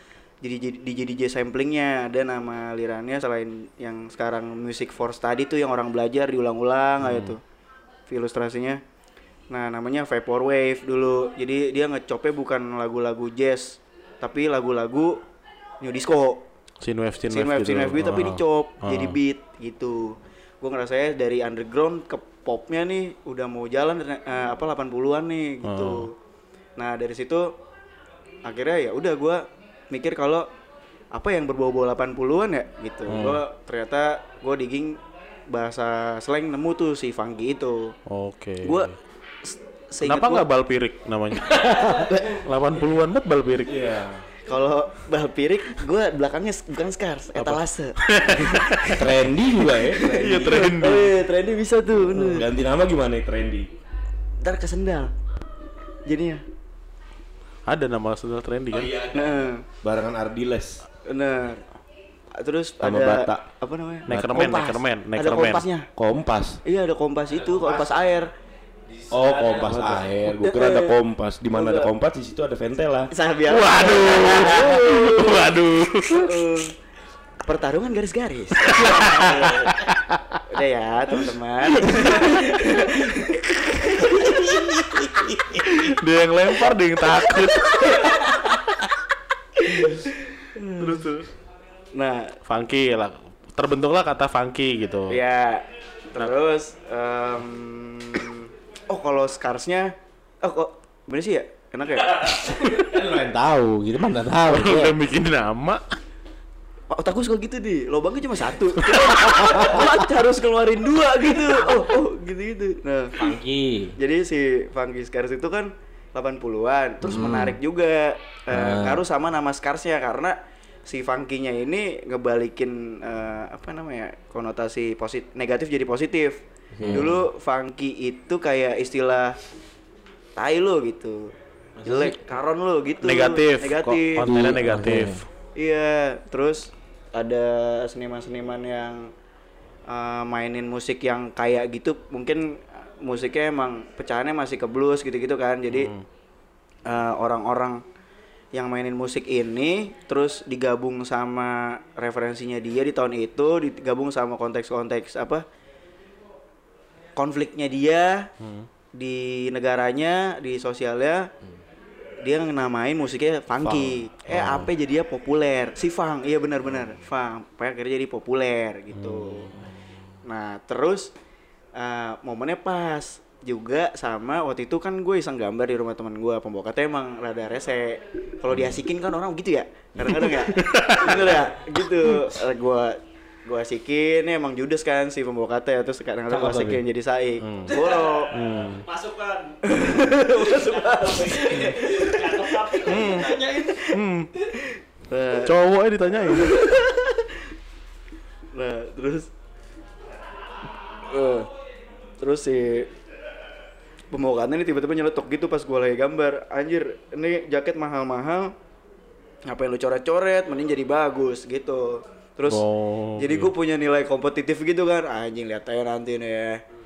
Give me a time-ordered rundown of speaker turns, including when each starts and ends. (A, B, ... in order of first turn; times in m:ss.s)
0:00.4-0:07.4 A
0:07.0-0:07.4 B
0:08.1-0:08.8 A
0:09.5-0:15.2 A
0:15.8-0:16.5 A
0:16.8-0:19.2 B
0:17.3-0:26.1 A
0:25.6-0:26.1 B
0:26.8-0:27.5 A
0:28.5-0:30.5 A
0:31.1-0:37.9 A
0:33.1-0:33.4 B
0:38.1-0:38.9 B
0:38.6-0:38.9 A
0:39.4-0:40.5 A
0:40.0-0:43.8 B
0:43.7-0:44.3 C
0:44.5-0:48.9 A
0:47.4-0:49.0 B
0:48.9-0:50.8 C
0:50.0-0:52.5 A
0:50.1-0:51.1 B
0:52.0-0:53.7 C
0:54.4-0:55.1 A
0:56.1-0:56.4 A
0:57.7-0:59.0 B
0:58.7-1:00.8 C
0:59.1-0:59.6 A
1:01.0-1:01.6 A
1:02.4-1:05.9 A
1:02.8-1:03.4 C
1:04.1-1:05.6 B
1:04.1-1:04.5 C
1:06.0-1:06.6 C
1:06.6-1:08.3 A
1:09.1-1:13.1 C
1:09.4-1:09.7 D
1:09.6-1:10.0 B
1:10.3-1:11.0 A
1:11.5-1:11.9 A
1:13.1-1:15.5 A
1:13.5-1:16.4 B
1:16.1-1:16.7 A
1:17.4-1:19.8 A
1:18.6-1:20.2 B
1:20.5-1:24.7 A
1:21.9-1:22.4 B
1:25.2-1:25.6 C
1:25.6-1:28.5 B
1:30.6-1:31.0 A
1:30.8-1:31.3 B
1:31.9-1:32.4 A
1:32.5-1:35.2 B
1:35.1-1:42.7 A
1:42.7-1:45.0 D
1:44.5-1:46.0 B
1:46.9-1:53.1 A
1:48.8-1:49.5 B
1:53.2-1:54.0 D
1:54.0-2:09.4 A
1:57.0-1:57.6 D
1:58.5-1:59.0 D
2:06.8-2:07.2 D
2:06.8-2:07.1 B
2:10.4-2:11.3 A
2:11.8-2:14.3 A
2:13.0-2:15.2 B
2:14.2-2:15.2 D
2:15.6-2:19.1 A
2:19.9-2:25.9 A
2:25.7-2:26.0 B
2:26.9-2:27.8 A
2:28.5-2:35.4 A
2:37.2-2:38.3 A
2:38.4-2:38.7 B
2:39.0-2:41.3 A
2:42.2-2:49.6 A
2:43.6-2:44.0 C
2:44.3-2:44.7 B
2:49.0-2:49.5 B
2:50.2-2:51.1 A
2:51.8-3:08.3 A
3:00.1-3:01.4 B
3:06.3-3:06.8 D
3:07.4-3:07.8 B
3:07.7-3:08.3 E
3:08.3-3:08.8 B
3:08.8-3:14.0 E
3:09.6-3:13.2 A
3:12.9-3:14.3 B
3:15.1-3:15.6 A
3:15.4-3:16.6 B
3:16.3-3:17.3 A
3:18.5-3:19.3 A
3:21.1-3:21.5 A
3:22.2-3:22.9 A
3:24.1-3:28.5 A
3:29.5-3:32.6 A
3:32.5-3:33.5 B
3:33.2-3:36.6 A